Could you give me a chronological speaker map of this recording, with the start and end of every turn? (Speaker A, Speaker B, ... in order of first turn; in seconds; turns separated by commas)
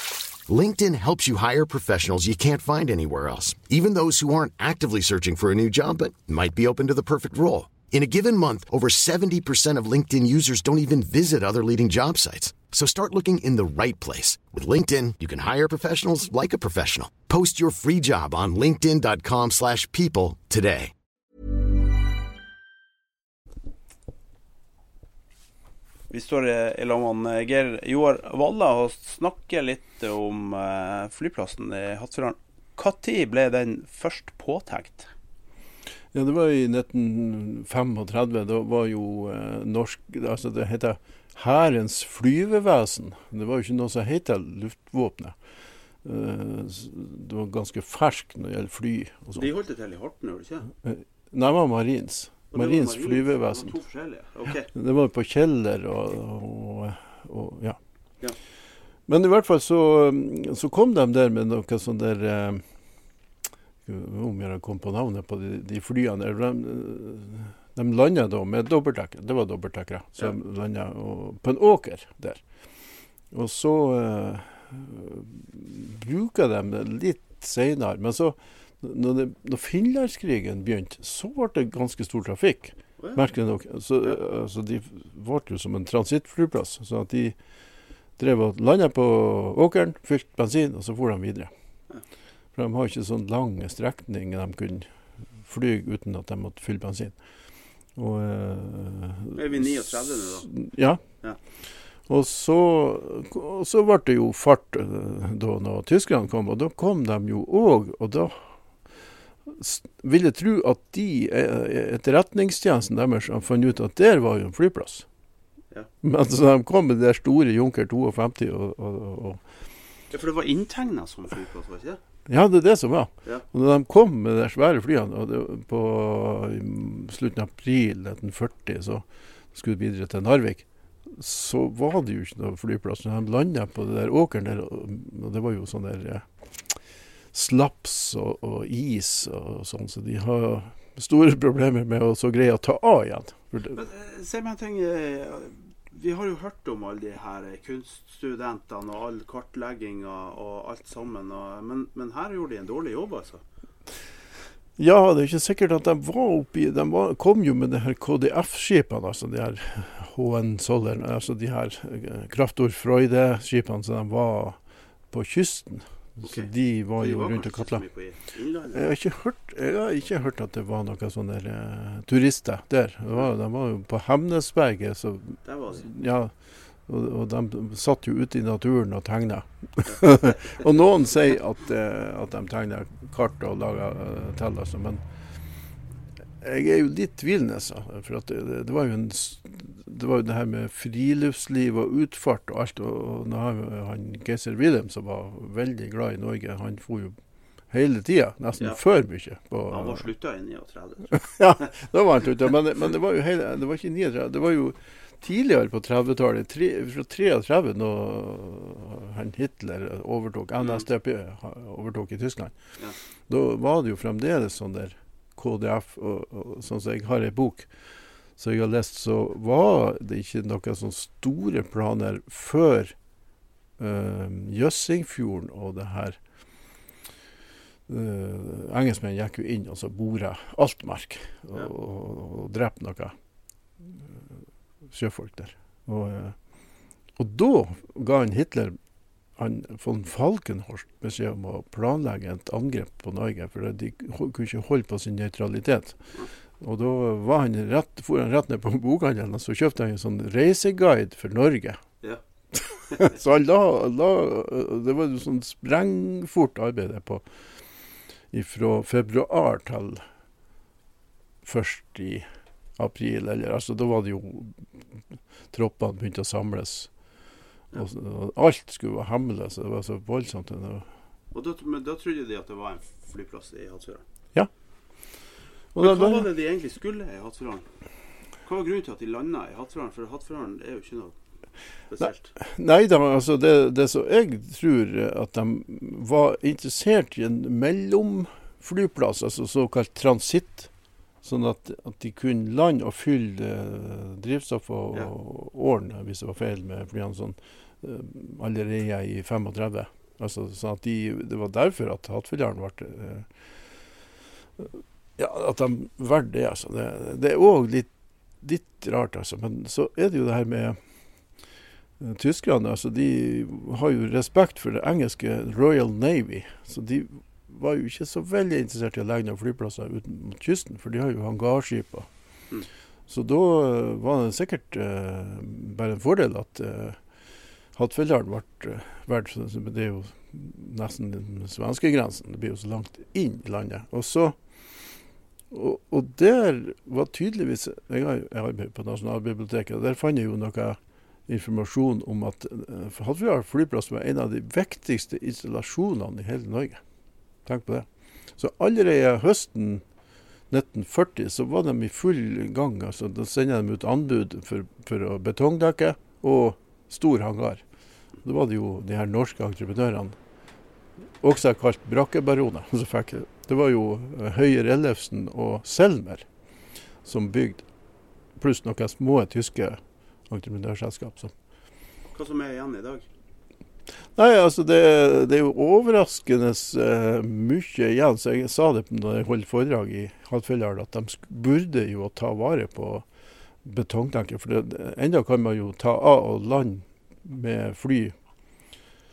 Speaker A: 0.5-20.9, Speaker B: 26.1-35.1, Speaker C: 36.1-45.4, Speaker C: 46.0-49.5, Speaker B: 49.4-50.7, Speaker C: 50.8-53.8, Speaker B: 52.5-54.7, Speaker C: 54.7-57.8, Speaker C: 59.1-62.6, Speaker C: 63.9-72.4, Speaker C: 73.3-87.3, Speaker C: 88.2-91.5, Speaker C: 92.5-94.9, Speaker C: 95.5-97.2, Speaker C: 98.0-101.0, Speaker B: 99.3-100.5, Speaker C: 102.1-108.3, Speaker C: 109.5-115.0, Speaker C: 116.0-119.4, Speaker B: 120.1-122.0, Speaker C: 122.3-129.0, Speaker C: 129.5-136.2, Speaker C: 137.3-143.8, Speaker B: 143.7-153.4, Speaker C: 154.8-164.6, Speaker C: 165.1-167.8, Speaker B: 166.2-168.9, Speaker C: 168.7-176.3, Speaker B: 175.4-175.9, Speaker C: 176.9-185.0, Speaker C: 186.4-197.2, Speaker C: 197.7-200.1, Speaker B: 199.7-201.3, Speaker C: 201.2-212.5, Speaker B: 210.6-210.9, Speaker C: 213.3-217.7, Speaker C: 218.4-222.9, Speaker C: 223.8-226.2, Speaker C: 227.9-233.1, Speaker C: 234.9-236.3, Speaker C: 237.2-238.8, Speaker C: 239.4-246.0, Speaker C: 246.6-251.8, Speaker C: 252.6-257.2, Speaker C: 258.3-260.0, Speaker C: 261.4-262.2, Speaker C: 262.8-264.6, Speaker C: 265.5-266.9, Speaker C: 267.7-270.9, Speaker B: 271.3-274.0, Speaker C: 275.8-276.3, Speaker B: 275.8-277.7, Speaker B: 278.4-281.1, Speaker B: 281.9-282.3, Speaker C: 282.1-290.7, Speaker C: 291.2-303.3, Speaker C: 305.2-307.9, Speaker C: 308.4-310.8, Speaker C: 312.0-322.1, Speaker C: 323.1-327.0, Speaker C: 327.8-334.4, Speaker C: 335.5-346.8, Speaker C: 347.5-347.9, Speaker C: 348.4-349.8, Speaker C: 350.5-357.6, Speaker C: 358.2-360.2, Speaker C: 361.2-366.2, Speaker C: 367.1-367.6, Speaker C: 368.4-371.3, Speaker B: 372.1-373.1, Speaker C: 374.2-383.0, Speaker C: 383.6-388.1